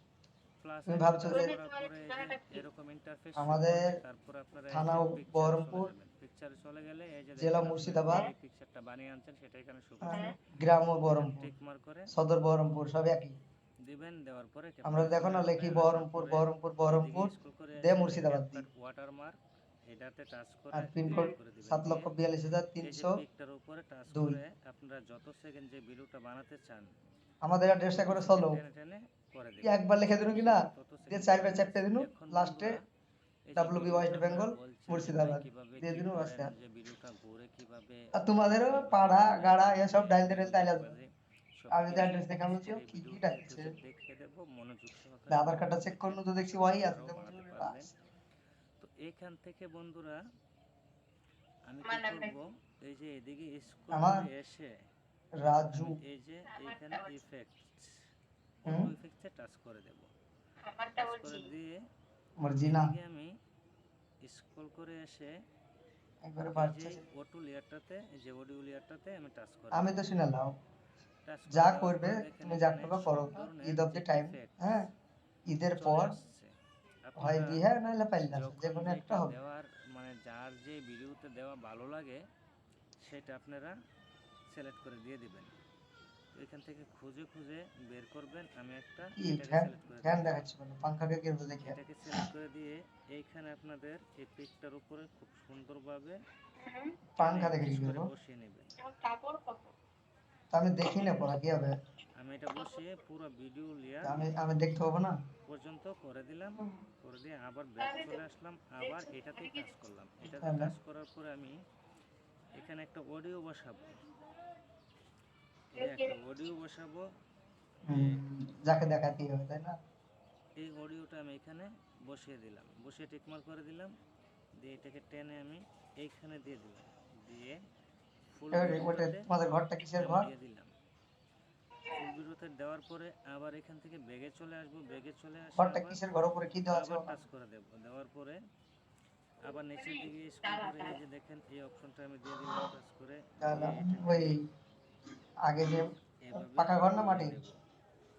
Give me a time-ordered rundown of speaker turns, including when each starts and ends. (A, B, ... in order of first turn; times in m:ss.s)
0:00.6-0:10.3 A
0:00.9-0:01.5 B
0:01.3-0:02.7 C
0:03.4-0:04.0 B
0:04.7-0:05.9 B
0:07.4-0:08.3 B
0:10.0-0:11.5 B
0:10.1-0:10.4 C
0:11.1-0:12.1 A
0:12.1-0:13.4 B
0:13.8-0:22.1 A
0:14.8-0:18.7 B
0:20.7-0:23.2 B
0:21.1-0:21.4 C
0:22.8-0:26.9 A
0:24.1-0:24.4 B
0:27.4-0:28.6 B
0:28.0-0:32.8 A
0:29.6-0:32.8 B
0:33.5-0:47.9 A
0:33.6-0:36.5 B
0:38.2-0:41.0 B
0:41.7-0:43.7 B
0:45.3-0:47.9 B
0:48.8-0:50.2 A
0:51.7-0:54.8 A
0:51.8-0:52.4 C
0:53.9-0:54.2 B
0:55.4-0:56.0 B
0:55.7-0:57.9 A
0:56.5-0:57.2 C
0:58.6-1:00.1 A
1:00.6-1:01.5 C
1:01.0-1:01.7 A
1:02.4-1:02.9 B
1:02.6-1:03.4 A
1:04.2-1:05.4 A
1:06.2-1:07.0 B
1:06.5-1:09.9 A
1:09.7-1:10.6 B
1:11.3-1:14.7 A
1:11.5-1:14.9 B
1:15.5-1:16.2 B
1:15.8-1:16.5 A
1:17.1-1:17.6 A
1:17.2-1:19.4 B
1:18.3-1:22.2 A
1:23.0-1:23.8 A
1:24.5-1:25.6 A
1:26.3-1:30.4 A
1:29.2-1:31.8 B
1:31.6-1:36.2 A
1:36.6-1:37.0 C
1:37.2-1:38.1 B
1:37.2-1:38.7 A
1:38.8-1:39.7 C
1:40.5-1:41.8 B
1:42.2-1:44.2 A
1:42.5-1:43.0 C
1:44.0-1:45.2 B
1:45.5-1:51.6 A
1:47.8-1:48.3 C
1:48.8-1:49.8 C
1:50.2-1:50.7 B
1:52.5-1:54.1 A
1:55.7-1:56.3 C
1:55.8-1:57.1 A
1:57.9-1:59.8 B
1:57.9-1:58.2 A
2:00.6-2:04.0 A
2:04.6-2:07.6 A
2:08.3-2:09.3 A
2:08.5-2:10.3 B
2:10.0-2:10.7 A
2:11.9-2:16.0 A
2:15.6-2:17.1 B
2:16.7-2:18.4 A
2:19.4-2:24.4 A
2:19.4-2:21.0 C
2:23.4-2:24.5 B
2:25.5-2:27.4 B
2:26.2-2:27.6 A